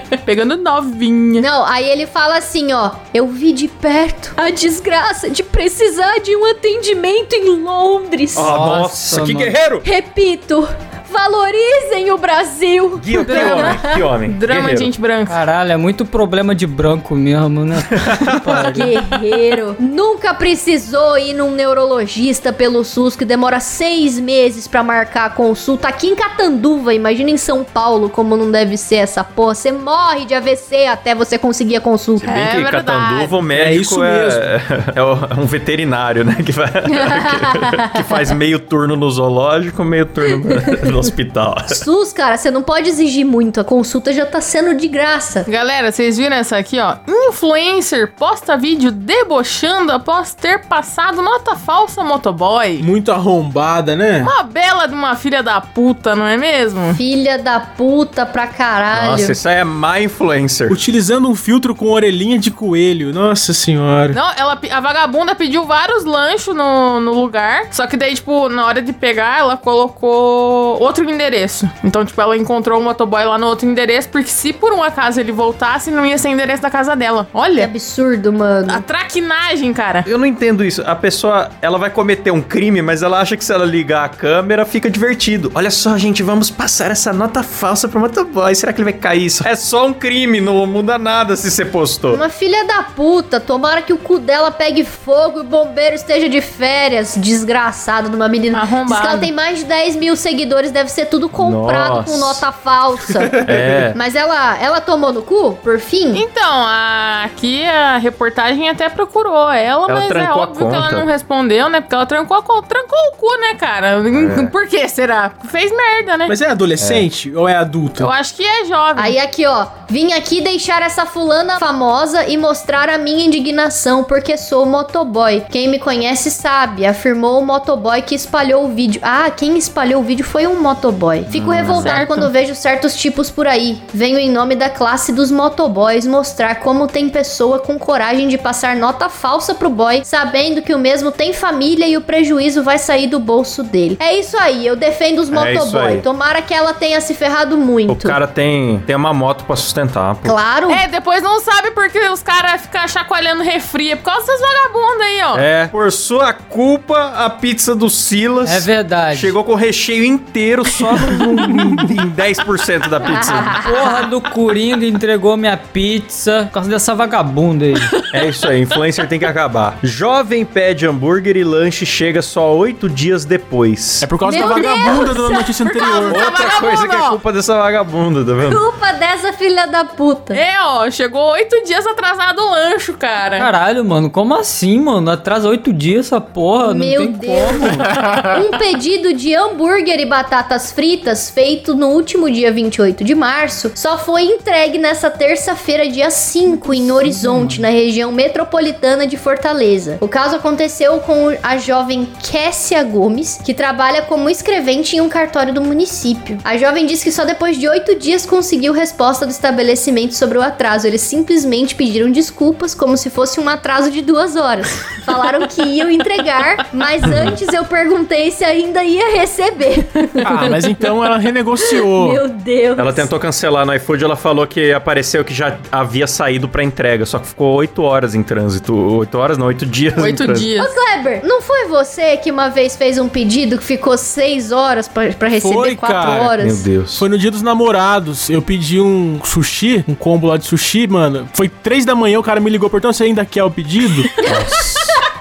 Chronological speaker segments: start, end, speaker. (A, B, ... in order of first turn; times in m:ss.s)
0:00.2-0:01.4 A
0:01.4-0:08.5 B
0:08.4-0:09.9 C
0:08.4-0:09.6 D
0:09.8-0:14.0 B
0:13.0-0:14.9 C
0:13.3-0:13.7 D
0:13.3-0:13.7 A
0:14.3-0:15.4 A
0:15.3-0:19.0 D
0:18.0-0:18.7 C
0:18.8-0:32.3 B
0:32.2-0:41.8 C
0:32.2-0:33.4 A
0:33.5-0:34.5 E
0:37.0-0:38.0 B
0:40.4-0:40.8 B
0:41.7-0:45.5 B
0:45.5-0:52.9 A
0:52.8-0:54.3 E
0:54.2-0:57.0 A
0:56.9-0:59.4 B
0:58.9-1:00.8 C
1:00.7-1:04.2 E
1:04.1-1:17.7 A
1:17.6-1:18.8 B
1:18.7-1:20.1 A
1:20.0-1:32.2 C
1:32.1-1:46.2 B
1:38.5-1:39.3 A
1:41.4-1:42.5 C
1:43.4-1:44.0 C
1:46.1-1:56.4 A
1:49.9-1:51.1 C
1:54.1-1:54.5 C
1:56.3-1:58.1 E
1:56.8-1:57.1 C
1:58.0-1:59.2 A
1:59.0-2:28.2 B
2:11.3-2:12.0 C
2:11.7-2:12.3 A
2:25.3-2:26.1 C
2:27.9-2:30.4 C
2:30.2-2:30.8 B
2:30.7-2:35.5 A
2:35.3-2:43.7 C
2:38.4-2:39.3 D
2:43.1-2:43.6 B
2:43.6-2:47.9 D
2:48.1-2:54.1 C
2:54.0-2:56.2 E
2:54.2-2:55.5 B
2:55.6-2:57.2 A
2:56.1-2:58.6 C
2:58.4-3:00.4 B
3:00.3-3:03.5 A
3:03.4-3:07.9 D
3:06.6-3:40.9 B
3:16.5-3:17.7 D
3:40.2-3:42.2 E
3:41.6-3:43.1 B
3:42.8-3:50.5 C
3:50.0-3:50.7 A
3:50.6-3:56.6 B
3:55.4-3:56.4 E
3:56.4-3:57.0 C
3:56.9-4:04.2 E
4:04.2-4:04.8 B
4:04.3-4:05.0 C